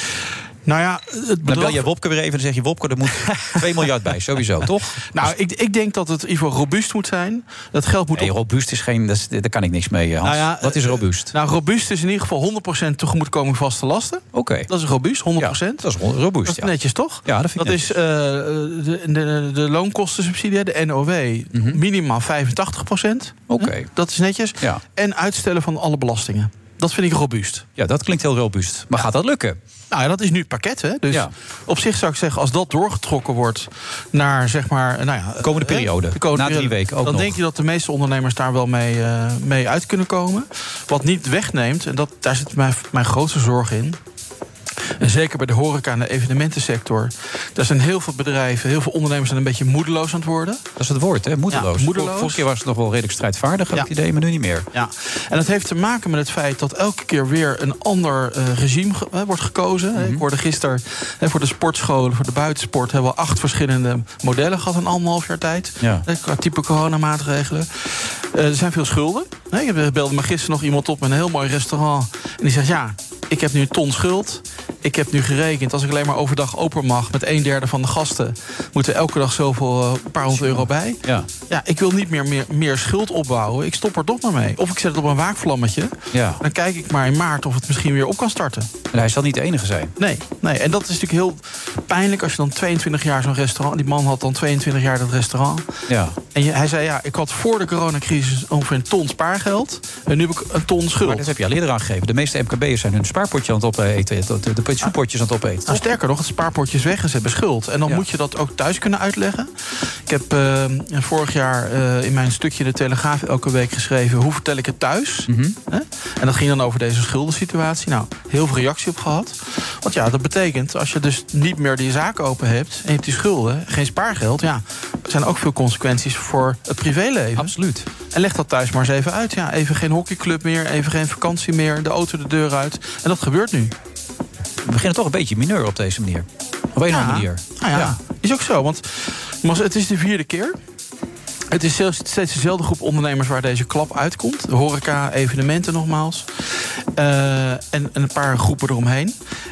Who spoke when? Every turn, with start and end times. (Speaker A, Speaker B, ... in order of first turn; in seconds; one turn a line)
Speaker A: 0.7-1.8
Speaker B: 1.5-5.3
Speaker A: 5.1-8.3
Speaker B: 8.1-11.3
Speaker A: 10.2-15.9
Speaker B: 14.3-14.7
Speaker B: 15.4-16.7
Speaker A: 16.4-27.6
Speaker B: 17.2-17.9
Speaker B: 23.5-23.9
Speaker B: 27.8-29.6
Speaker A: 29.9-44.0
Speaker B: 35.4-37.3
Speaker A: 45.0-50.6
Speaker B: 50.8-54.7
Speaker A: 51.5-52.4
Speaker A: 54.7-88.7
Speaker B: 60.0-60.2
Speaker B: 80.3-81.3
Speaker B: 86.1-86.4
Speaker B: 88.9-89.9
Speaker A: 90.0-95.7
Speaker B: 95.9-96.1
Speaker A: 96.3-101.3
Speaker B: 101.0-105.8
Speaker A: 105.7-109.5
Speaker A: 110.1-127.5
Speaker B: 115.3-115.5
Speaker B: 127.4-127.8
Speaker A: 128.1-133.7
Speaker B: 134.6-137.9
Speaker A: 136.9-140.6
Speaker A: 141.5-146.4
Speaker A: 146.9-149.1